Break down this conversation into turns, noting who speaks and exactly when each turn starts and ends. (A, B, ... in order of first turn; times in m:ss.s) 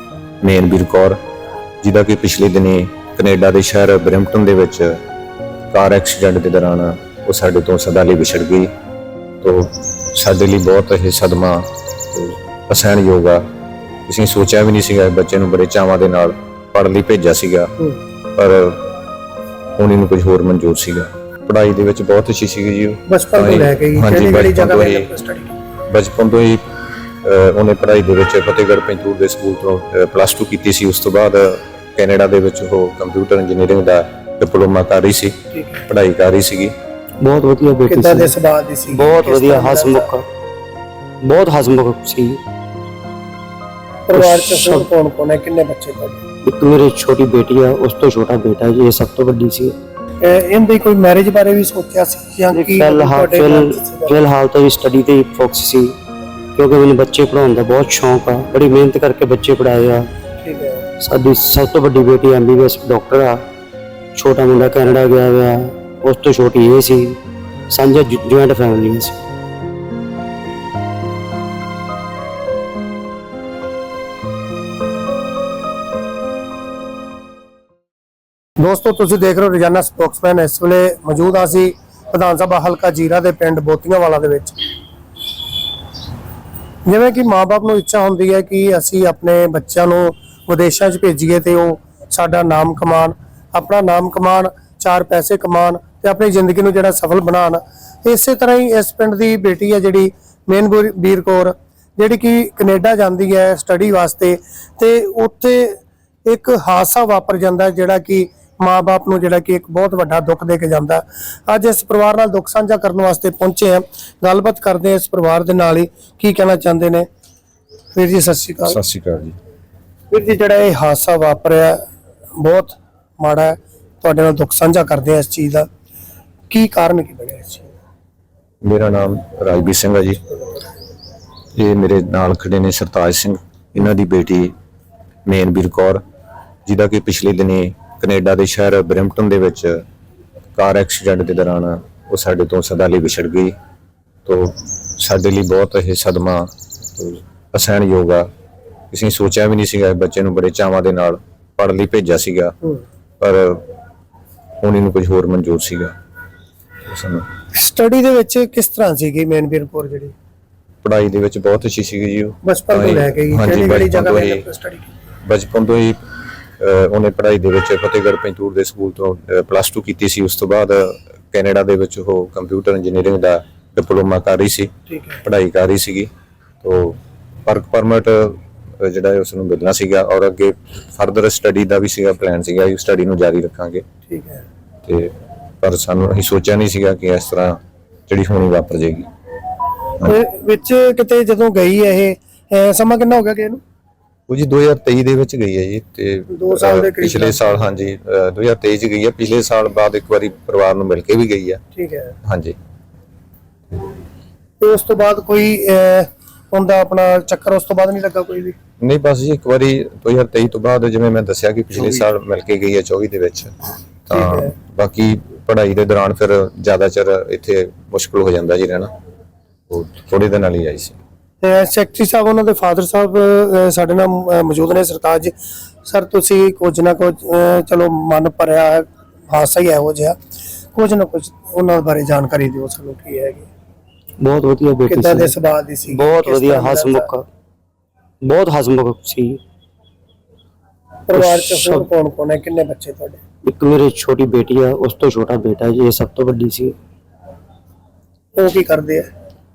0:00.4-0:01.2 A
0:01.8-0:05.0 A
0:05.7-0:08.7 A
0:09.4-0:13.4 A
0:14.1-0:17.7 A
0:18.4-0:18.9 A
0:19.8-0:25.1 A
0:23.1-0:25.5 B
0:25.9-0:26.6 A
0:27.2-0:35.4 A
0:35.5-0:35.8 B
0:35.9-0:36.7 A
0:37.2-0:38.3 C
0:37.9-0:40.1 B
0:38.9-0:40.2 C
0:41.2-0:42.4 C
0:44.1-0:46.2 B
0:44.2-0:44.9 C
0:46.4-0:49.8 C
0:50.2-0:54.2 B
0:52.5-0:55.9 C
0:56.6-1:00.1 C
1:00.4-1:00.9 B
1:01.0-1:03.4 C
1:04.2-1:07.2 C
1:07.7-1:09.2 C
1:18.6-1:24.6 B
1:26.9-1:57.1 B
1:57.9-1:58.8 B
1:58.6-1:59.4 A
2:00.1-2:01.8 B
2:02.4-2:05.7 B
2:06.5-2:07.7 B
2:08.6-2:10.2 A
2:11.6-2:14.5 A
2:15.3-2:16.0 A
2:16.7-2:19.8 A
2:20.6-2:23.6 A
2:24.3-2:28.3 A
2:28.9-2:32.6 A
2:33.2-2:33.7 A
2:34.6-2:35.9 A
2:36.9-2:37.3 A
2:37.6-2:40.1 B
2:40.8-2:44.4 A
2:42.4-2:44.9 B
2:45.3-2:46.0 A
2:46.6-2:54.7 A
2:54.9-2:55.2 B
2:55.2-2:56.1 A
2:56.6-3:03.8 A
3:04.1-3:04.4 B
3:04.9-3:09.1 A
3:10.0-3:13.6 B
3:14.3-3:21.6 A
3:16.3-3:17.7 B
3:21.8-3:22.2 B
3:22.2-3:22.6 A
3:24.6-3:28.6 B
3:28.8-3:33.5 A
3:34.1-3:38.9 A
3:34.1-3:34.5 B
3:39.7-3:41.0 A
3:41.4-3:45.3 B
3:45.8-3:50.2 B
3:50.8-3:53.5 B
3:54.2-3:55.3 C
3:54.9-3:57.1 B
3:55.9-3:57.2 C
3:58.2-3:59.4 C
4:01.1-4:03.2 B
4:01.1-4:01.9 C
4:03.4-4:06.7 C
4:08.4-4:09.1 B